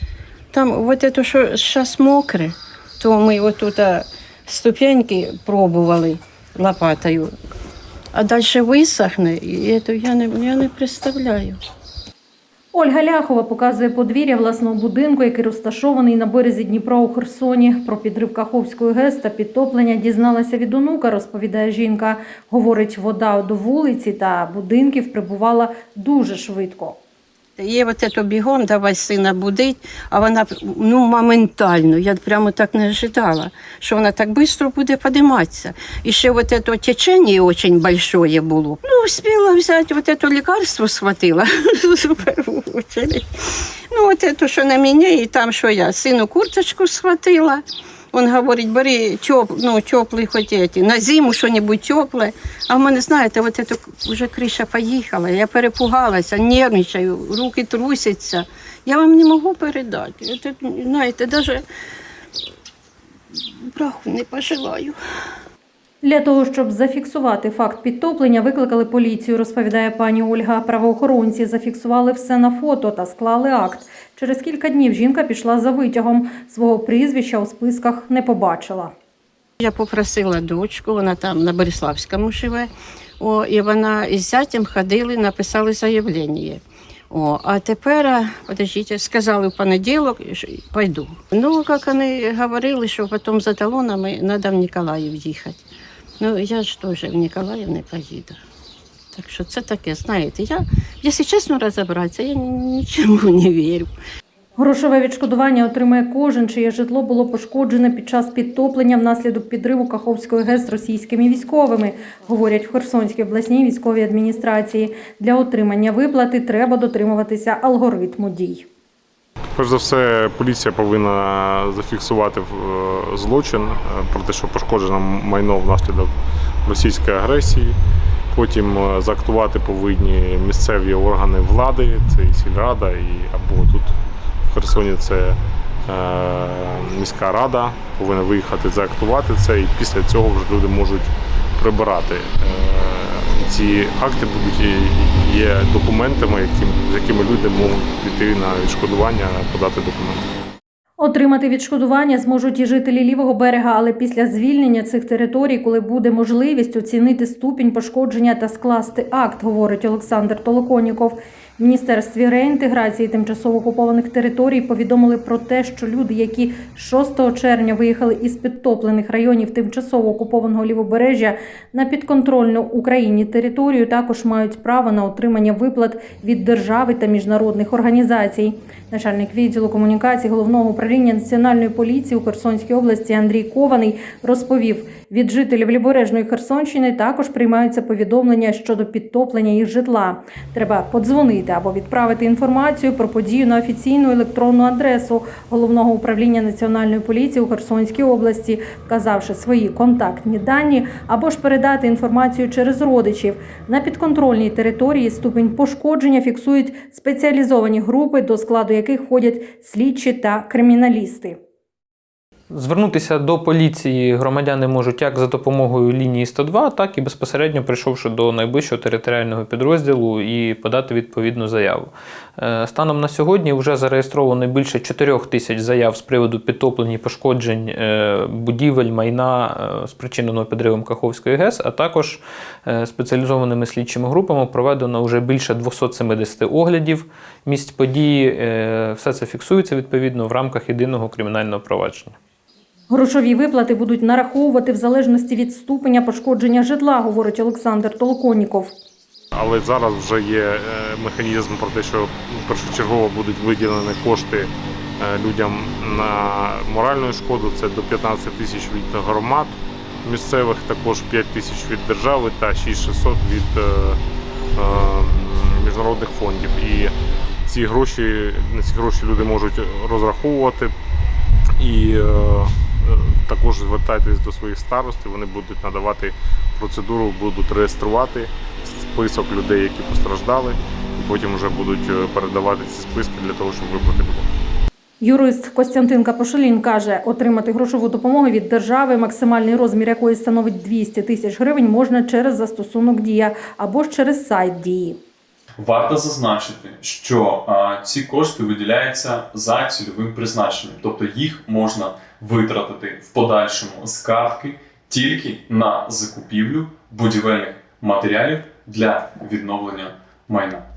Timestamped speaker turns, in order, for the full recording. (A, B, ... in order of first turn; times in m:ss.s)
0:00.5-0:07.3 A
0:08.1-0:11.6 A
0:12.7-0:27.0 B
0:27.6-0:43.2 A
0:43.9-1:01.6 A
1:03.6-1:05.0 A
1:06.0-1:18.9 B
1:19.6-1:22.7 A
1:23.2-1:35.6 A
1:36.2-1:38.4 A
1:39.1-1:43.9 A
1:44.6-1:58.7 B
1:59.5-2:06.1 C
2:06.6-2:07.8 C
2:08.3-2:30.3 C
2:31.0-3:31.4 B
3:32.5-4:02.2 D
4:02.9-4:08.7 B
4:09.3-4:24.0 C
4:24.5-4:30.7 C
4:31.6-4:44.3 C
4:45.0-4:55.0 B
4:55.6-5:10.6 E